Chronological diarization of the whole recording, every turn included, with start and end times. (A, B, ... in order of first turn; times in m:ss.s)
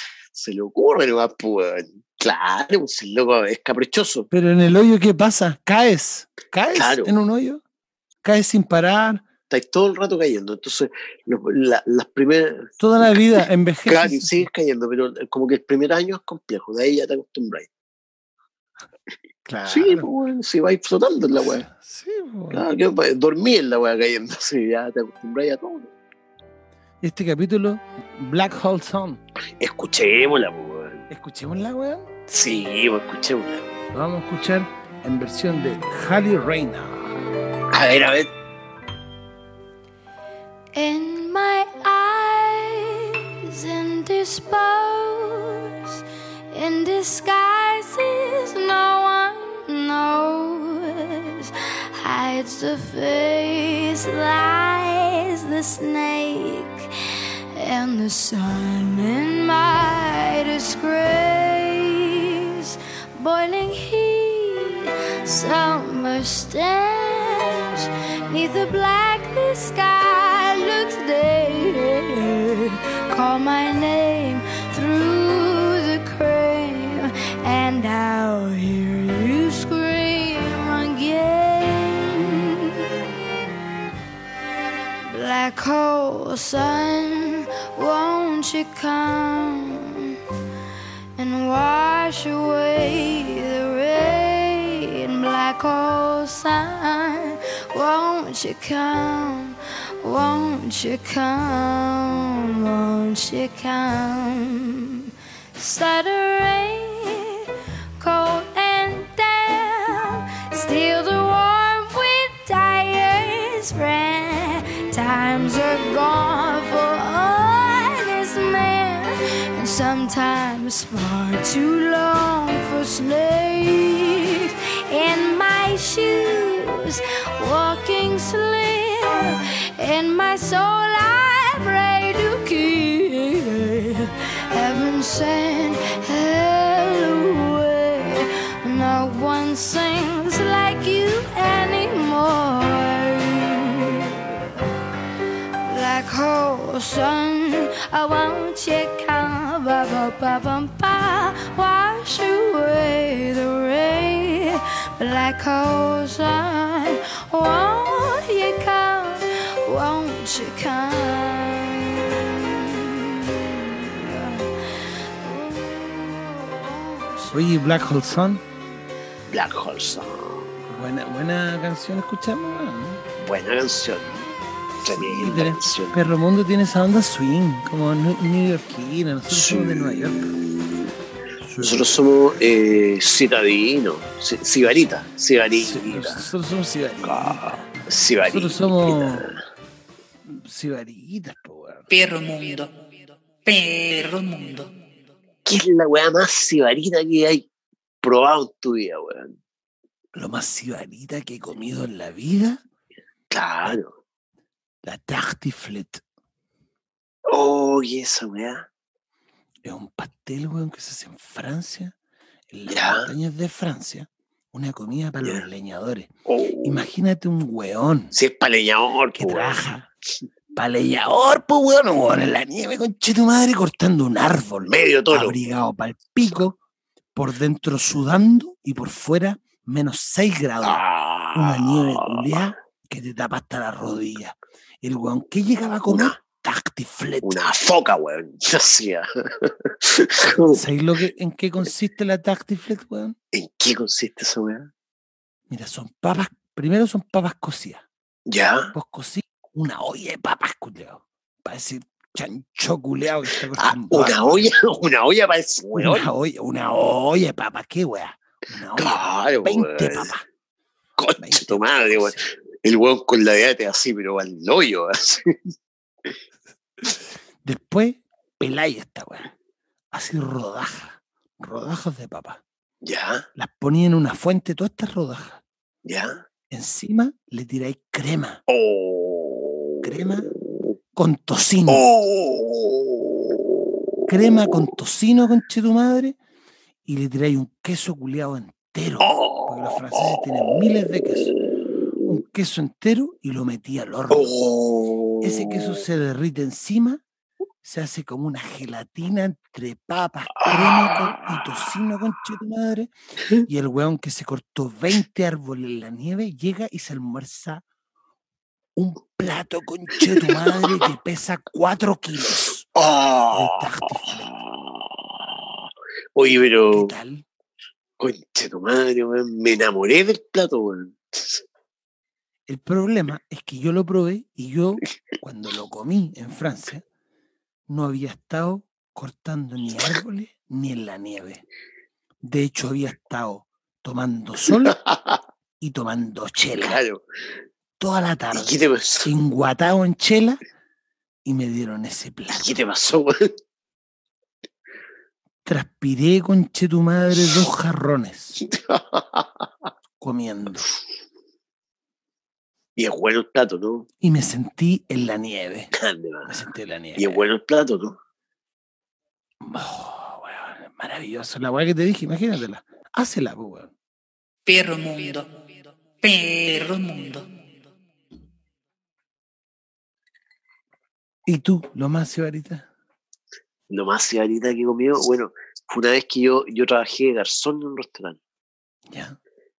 0:00.3-0:04.3 A
0:04.3-0:07.6 B
0:06.7-0:07.1 A
0:08.2-0:09.2 B
0:09.5-0:17.7 A
0:12.8-0:14.5 B
0:19.4-0:20.1 B
0:19.6-0:21.6 A
0:21.3-0:22.6 B
0:22.5-0:25.9 A
0:27.0-0:29.2 B
0:29.6-0:31.0 A
0:31.1-0:32.1 B
0:32.3-0:33.8 A
0:33.9-0:37.2 B
0:37.7-0:38.3 A
0:40.7-0:45.7 C
0:46.5-0:56.9 C
0:57.5-1:23.0 C
1:25.1-1:30.2 C
1:31.2-1:47.4 C
1:48.0-2:24.5 C
2:25.6-2:47.5 C
2:47.3-2:48.4 B
2:49.3-2:50.5 A
2:50.6-2:53.0 B
2:53.2-2:54.2 A
2:54.8-2:56.0 A
2:54.9-3:00.3 B
2:59.3-3:00.9 A
3:01.4-3:02.0 B
3:01.6-3:06.3 A
3:05.5-3:07.7 B
3:07.0-3:09.4 A
3:08.2-3:09.3 B
3:10.2-3:11.8 B
3:11.9-3:12.7 D
3:13.4-3:14.7 D
3:15.4-3:17.4 A
3:18.0-3:19.4 A
3:20.1-3:22.6 B
3:23.3-3:23.9 A
3:24.8-3:26.0 B
3:27.3-3:28.7 A
3:29.6-3:31.9 B
3:32.5-3:36.1 B
3:32.7-3:33.1 A
3:36.3-3:36.8 A
3:36.6-3:38.1 B
3:38.1-3:39.6 A
3:39.2-3:39.9 B
3:40.5-3:46.6 B
3:44.6-3:45.4 A
3:47.1-3:50.8 B
3:50.6-3:52.5 A
3:51.3-3:57.4 B
3:55.9-3:56.2 A
3:57.2-4:00.6 A
4:00.5-4:03.2 B
4:03.3-4:04.7 A
4:05.5-4:07.8 B
4:08.3-4:08.7 A
4:08.7-4:14.5 B
4:13.6-4:16.1 A
4:15.8-4:20.2 B
4:18.8-4:20.1 A
4:21.0-4:25.5 A
4:21.2-4:22.2 B
4:26.8-4:29.3 B
4:29.9-4:32.4 B
4:32.8-4:33.3 A
4:33.4-4:35.4 B
4:35.8-4:36.2 A
4:36.5-4:38.4 B
4:38.5-4:39.8 A
4:39.8-4:40.3 B
4:40.9-4:41.8 B
4:41.7-4:43.6 A
4:44.1-4:46.2 B
4:46.8-4:51.4 B
4:49.0-4:50.3 A
4:52.0-4:54.3 B
4:54.1-4:55.8 A
4:55.2-4:57.0 B
4:57.6-5:02.9 B
5:00.4-5:01.6 A
5:03.4-5:07.6 B
5:08.8-5:12.7 B
5:10.2-5:10.9 A
5:12.7-5:16.9 A
5:13.3-5:14.3 B
5:16.7-5:17.2 B
5:18.0-5:21.4 A
5:22.5-5:26.8 B
5:27.7-5:31.4 B
5:32.2-5:34.8 B
5:34.5-5:35.2 A
5:35.6-5:36.8 B
5:36.6-5:37.0 A
5:37.8-5:40.4 B
5:38.3-5:39.1 A
5:41.2-5:42.6 B
5:42.3-5:43.3 A
5:45.4-5:48.4 B
5:48.4-5:49.4 A
5:50.0-5:50.7 B
5:52.8-5:53.9 A
5:54.0-5:55.7 B
5:55.7-5:56.4 A
5:56.2-5:57.3 B
5:57.0-5:58.0 A
5:59.4-6:03.7 B
6:04.4-6:05.3 D
6:06.0-6:07.3 D
6:11.2-6:12.6 B
6:13.7-6:18.2 A
6:18.9-6:19.2 B